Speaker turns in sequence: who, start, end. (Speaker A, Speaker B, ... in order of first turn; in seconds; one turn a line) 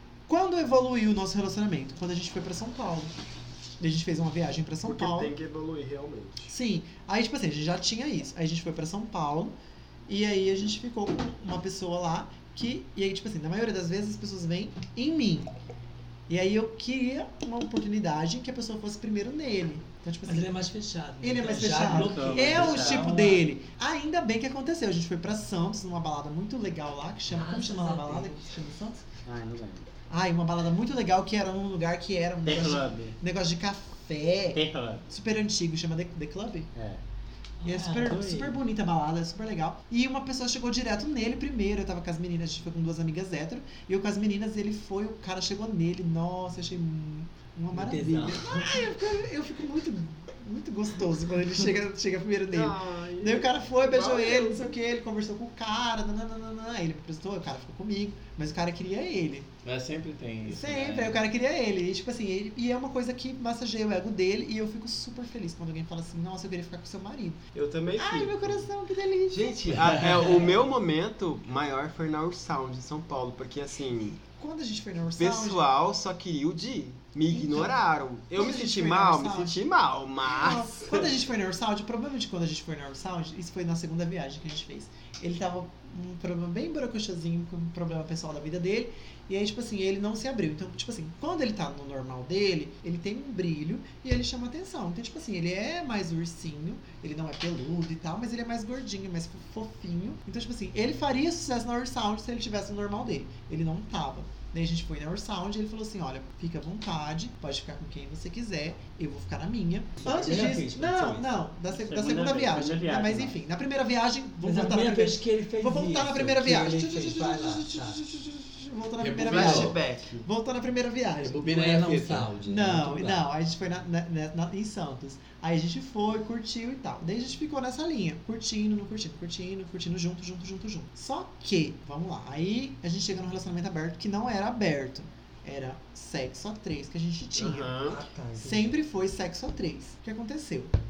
Speaker A: 0.3-3.1
Speaker A: 3.8-5.3
Speaker B: 4.8-6.5
Speaker A: 6.5-15.5
Speaker A: 16.3-20.5
Speaker C: 20.2-23.5
Speaker A: 21.2-29.0
Speaker D: 21.7-23.0
Speaker C: 27.3-28.4
Speaker D: 29.2-29.9
Speaker A: 30.1-36.7
Speaker D: 32.4-33.1
Speaker D: 34.5-35.0
Speaker D: 36.7-37.0
Speaker C: 37.6-38.6
Speaker A: 37.6-59.5
Speaker C: 47.7-48.7
Speaker B: 52.5-54.7
Speaker E: 59.6-61.2
Speaker A: 60.4-67.4
Speaker B: 67.5-68.7
Speaker A: 67.9-70.3
Speaker B: 69.3-74.2
Speaker A: 74.3-75.6
Speaker B: 75.2-81.1
Speaker A: 77.3-79.7
Speaker A: 80.2-121.4
Speaker C: 110.0-111.2
Speaker D: 111.7-113.3
Speaker C: 114.4-118.0
Speaker E: 119.0-119.8
Speaker B: 119.2-120.2
Speaker E: 121.2-122.3
Speaker C: 121.4-123.2
Speaker A: 122.4-137.8
Speaker B: 137.3-138.0
Speaker C: 137.8-138.7
Speaker A: 138.4-140.7